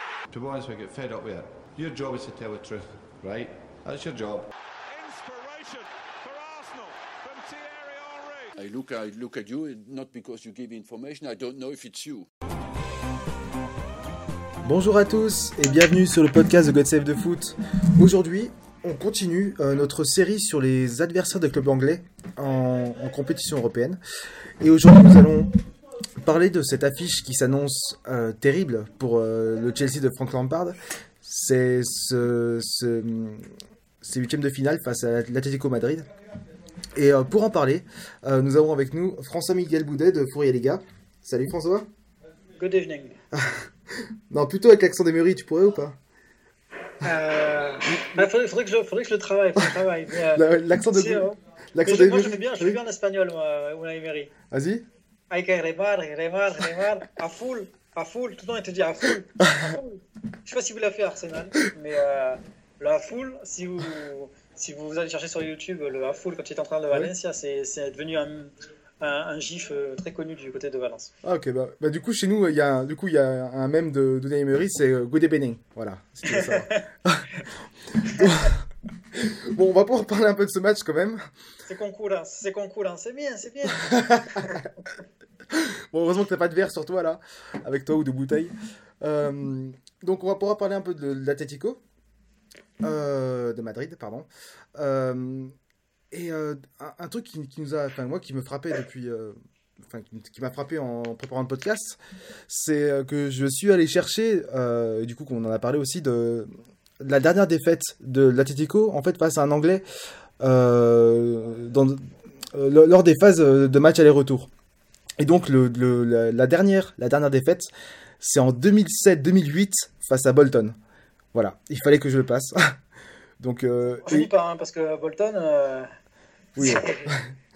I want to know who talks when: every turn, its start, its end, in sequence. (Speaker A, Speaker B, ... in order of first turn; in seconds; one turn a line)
Speaker A: 0.3-4.5
Speaker B: 4.9-8.6
Speaker C: 8.6-12.3
Speaker D: 14.6-24.0
Speaker D: 24.6-25.5
Speaker D: 26.2-33.5
Speaker D: 34.0-36.1
Speaker D: 37.0-41.9
Speaker E: 42.6-43.2
Speaker D: 43.3-43.7
Speaker D: 44.3-46.0
Speaker E: 47.0-54.3
Speaker D: 50.3-52.8
Speaker D: 54.5-54.9
Speaker E: 55.3-71.1
Speaker D: 71.2-77.3
Speaker E: 76.3-76.8
Speaker D: 78.0-78.6
Speaker D: 79.1-81.2
Speaker E: 81.7-84.5
Speaker D: 83.8-84.7
Speaker D: 85.5-91.8
Speaker D: 92.8-95.5
Speaker D: 96.1-99.4
Speaker D: 99.9-106.5
Speaker D: 107.0-109.8
Speaker D: 110.4-114.5
Speaker D: 115.2-117.7
Speaker D: 118.2-120.8
Speaker D: 121.3-122.6
Speaker D: 123.4-124.3
Speaker E: 124.1-125.9
Speaker D: 126.6-127.2
Speaker E: 126.6-127.1